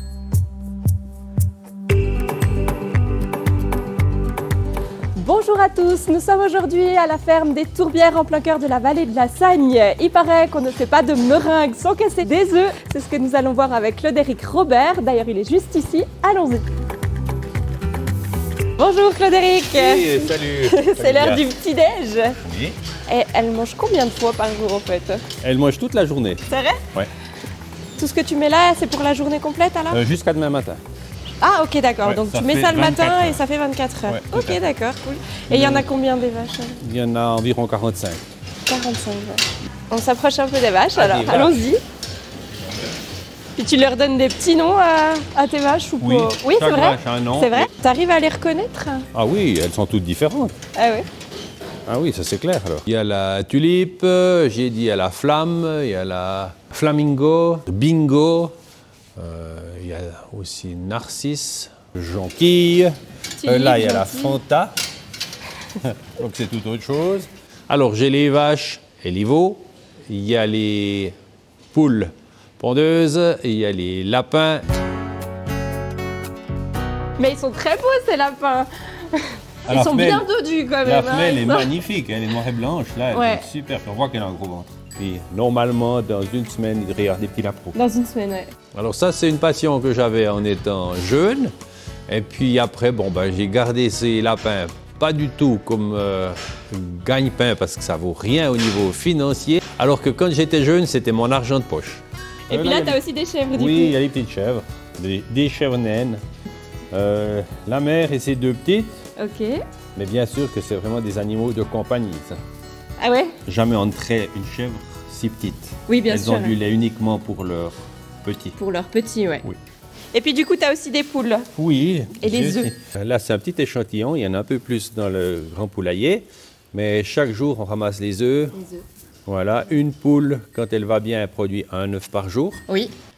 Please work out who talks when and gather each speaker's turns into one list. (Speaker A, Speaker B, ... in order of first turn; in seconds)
Speaker A: 5.2-16.7, 18.8-22.4, 23.1-25.2, 26.5-26.8, 28.0-30.0, 31.4-36.8, 38.6-41.8, 43.6-49.1, 50.7-51.1, 63.4-64.4, 77.2-81.7, 83.1-83.5, 87.7-88.5, 102.5-104.0, 109.2-109.6, 113.0-113.3, 115.9-116.6, 118.6-119.5, 120.1-121.5, 122.2-122.7, 128.6-128.8, 132.7-132.9
Speaker B: 19.7-21.4, 22.4-22.8, 25.4-26.4, 29.9-30.8, 32.0-33.4, 34.1-34.6, 35.5-35.9, 36.8-38.2, 40.9-41.7, 46.0-47.7, 49.1-50.6, 51.9-58.5, 59.2-64.8, 65.8-71.2, 71.7-74.6, 79.7-80.3, 80.8-87.8, 88.7-91.5, 92.1-103.0, 103.5-106.2, 106.9-109.0, 110.0-112.4, 113.5-118.6, 121.6-128.6, 129.3-132.6